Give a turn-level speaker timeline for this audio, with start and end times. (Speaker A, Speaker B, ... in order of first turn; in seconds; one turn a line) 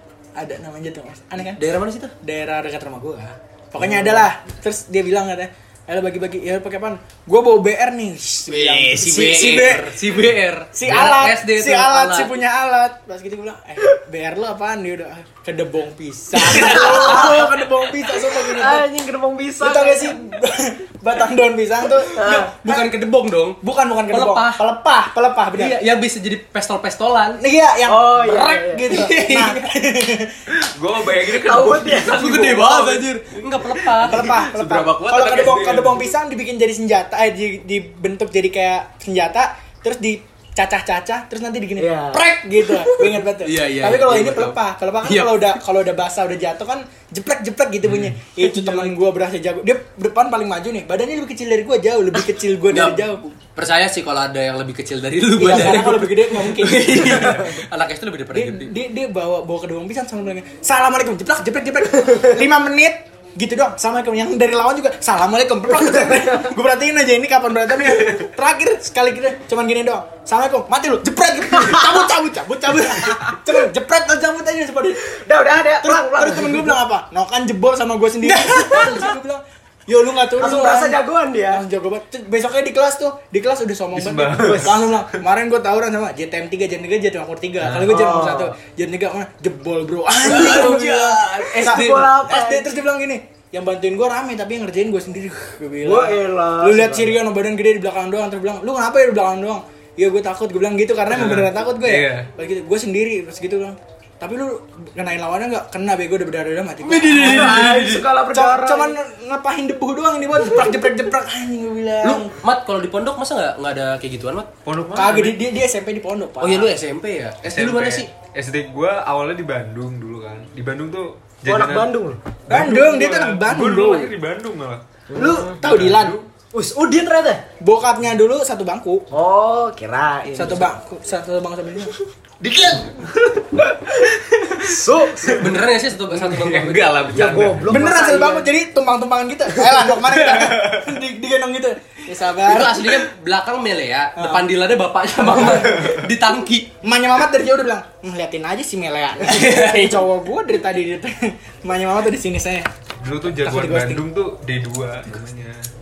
Speaker A: 0.3-1.6
Speaker B: 1.5-2.1
Speaker A: 2.2-10.0
Speaker B: 8.5-12.3
Speaker A: 10.7-18.9
Speaker B: 16.4-17.4
Speaker C: 16.4-20.1
Speaker A: 19.6-22.9
Speaker C: 22.1-22.5
Speaker B: 22.2-23.6
Speaker A: 23.6-25.8
Speaker B: 24.1-24.6
Speaker B: 25.6-27.4
Speaker A: 27.4-30.4
Speaker C: 27.9-28.8
Speaker B: 28.9-29.6
Speaker D: 30.5-32.8
Speaker C: 31.2-32.8
Speaker B: 31.9-34.3
Speaker D: 33.3-36.0
Speaker A: 34.0-53.3
Speaker C: 41.8-42.8
Speaker B: 43.4-45.6
Speaker D: 47.9-48.1
Speaker B: 48.4-48.9
Speaker B: 52.7-58.8
Speaker A: 55.4-57.6
Speaker A: 58.3-75.0
Speaker C: 71.5-72.0
Speaker C: 75.1-76.8
Speaker A: 75.8-112.3
Speaker B: 78.5-79.0
Speaker C: 78.6-78.9
Speaker C: 80.4-81.6
Speaker D: 83.9-85.0
Speaker D: 87.6-87.9
Speaker C: 87.8-88.5
Speaker C: 90.2-92.7
Speaker B: 90.3-92.0
Speaker C: 95.8-97.2
Speaker D: 101.1-102.3
Speaker B: 106.8-108.0
Speaker C: 107.1-109.0
Speaker B: 112.0-114.5
Speaker D: 114.6-115.4
Speaker A: 114.9-116.7
Speaker B: 116.4-118.1
Speaker D: 117.4-121.9
Speaker C: 121.4-122.2
Speaker D: 122.5-124.8
Speaker A: 122.5-124.1
Speaker C: 125.1-125.6
Speaker A: 125.1-126.2
Speaker D: 125.6-126.3
Speaker C: 126.5-127.4
Speaker A: 127.6-129.1
Speaker C: 129.1-130.7
Speaker A: 130.3-131.9
Speaker D: 132.4-133.4
Speaker D: 134.3-134.8
Speaker C: 134.5-135.5
Speaker B: 135.2-137.2
Speaker D: 136.1-137.8
Speaker C: 137.1-138.5
Speaker A: 137.7-143.0
Speaker D: 140.3-140.8
Speaker B: 142.4-146.7
Speaker A: 144.2-144.5
Speaker A: 145.2-145.9
Speaker D: 145.6-146.0
Speaker A: 146.8-152.7
Speaker B: 149.2-150.0
Speaker D: 153.0-155.7
Speaker A: 153.2-154.0